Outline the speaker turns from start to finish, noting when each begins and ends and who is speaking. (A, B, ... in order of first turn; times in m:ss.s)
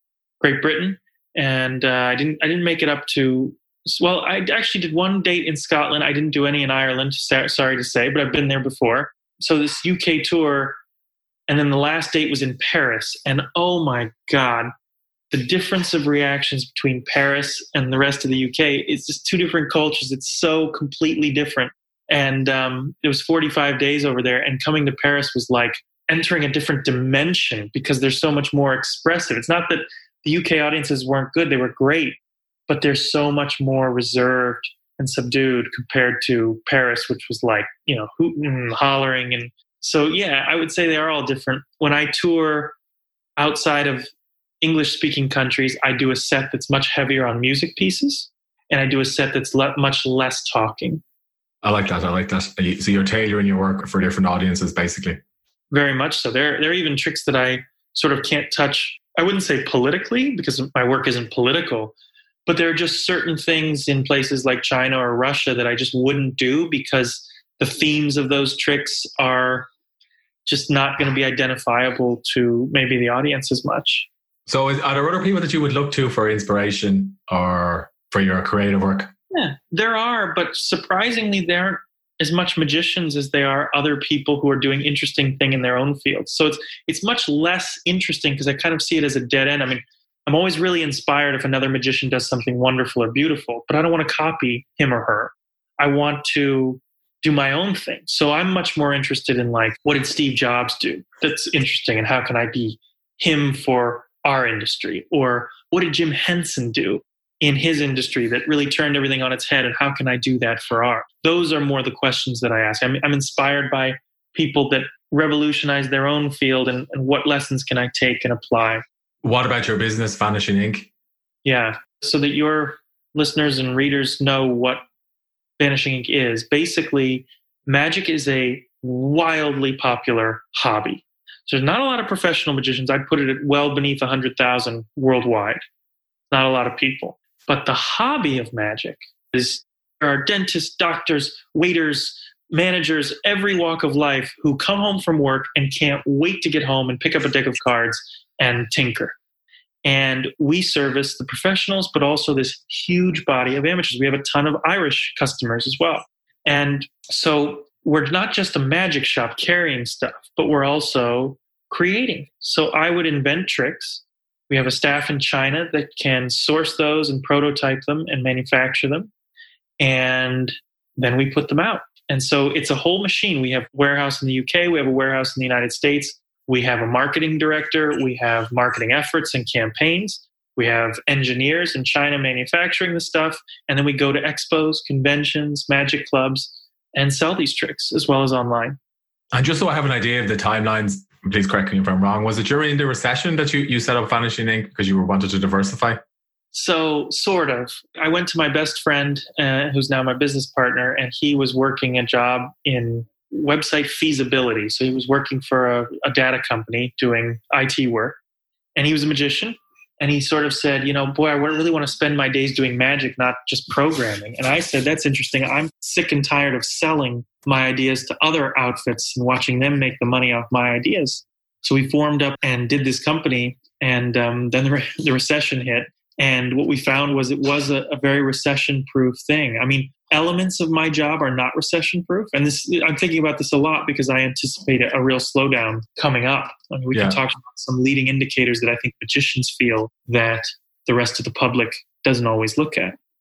0:00.4-0:10.8 A
0:11.5-0:14.7 A
0:15.3-0:42.8 A
0:43.4-0:44.1 A
0:44.6-0:51.0 A
0:51.6-0:55.2 B
0:55.7-1:01.9 A
1:02.4-1:09.7 A
1:10.4-1:14.1 A
1:14.5-1:19.1 B
1:19.3-1:58.8 A
1:59.2-2:00.9 B
2:01.4-2:04.8 A
2:05.6-2:15.6 A
2:16.3-2:29.2 A
2:29.8-2:49.1 A
2:49.8-3:08.8 A
3:09.3-3:16.0 B
3:16.5-3:28.2 A
3:28.8-4:03.0 A
3:56.9-3:57.2 B